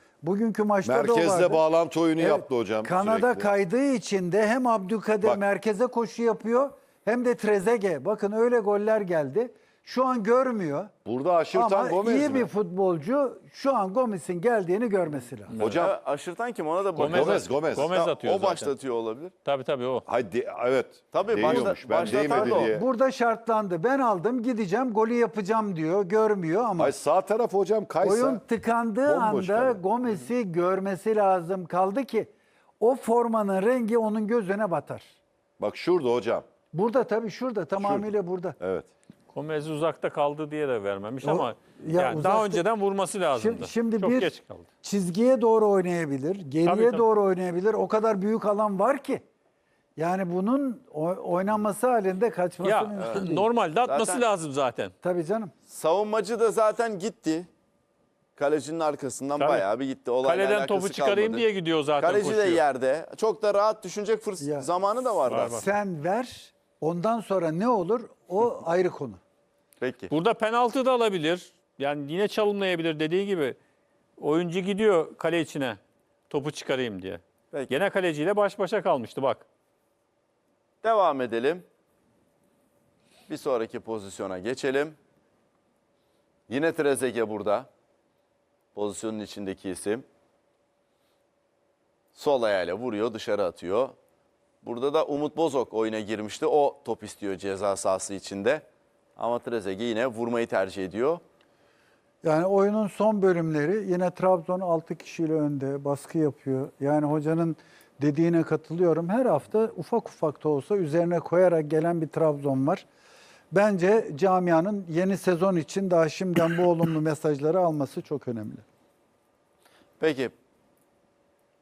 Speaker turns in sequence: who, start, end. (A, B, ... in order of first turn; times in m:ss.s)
0:00.2-0:01.6 A
0:00.8-0:03.5 B
0:02.2-0:10.9 A
0:11.0-0:12.5 B
0:11.5-0:15.5 A
0:15.5-0:15.8 C
0:15.5-0:16.0 B
0:15.7-0:19.3 D
0:17.0-0:17.9 B
0:17.0-0:18.7 C
0:19.4-0:20.0 C
0:20.0-0:22.9 B
0:21.1-0:22.7 D
0:21.4-0:27.0 A
0:26.8-0:28.4 B
0:28.0-0:35.1 A
0:29.0-0:29.8 B
0:35.6-0:36.4 B
0:36.7-0:38.6 A
0:37.8-0:38.9 B
0:39.3-0:44.6 C
0:41.2-0:42.6 A
0:43.3-0:44.3 A
0:44.8-0:49.2 A
0:46.6-0:47.0 C
0:50.0-0:53.4 A
0:52.6-0:54.9 C
0:53.0-0:53.2 D
0:53.8-0:54.2 D
0:55.0-0:55.5 A
0:55.7-0:57.5 D
0:58.4-1:01.4 D
0:59.4-0:59.7 C
1:00.2-1:02.6 C
1:02.0-1:05.6 D
1:04.4-1:04.7 A
1:05.2-1:05.6 C
1:05.4-1:09.2 A
1:09.8-1:10.1 D
1:10.1-1:13.6 C
1:14.2-1:19.4 C
1:20.8-1:21.6 D
1:23.3-1:25.0 D
1:26.5-1:27.7 D
1:28.7-1:30.0 D
1:32.1-1:33.9 D
1:34.6-1:38.6 D
1:39.2-1:41.2 D
1:42.2-1:52.8 A
1:53.5-1:58.6 A
2:00.0-2:00.3 D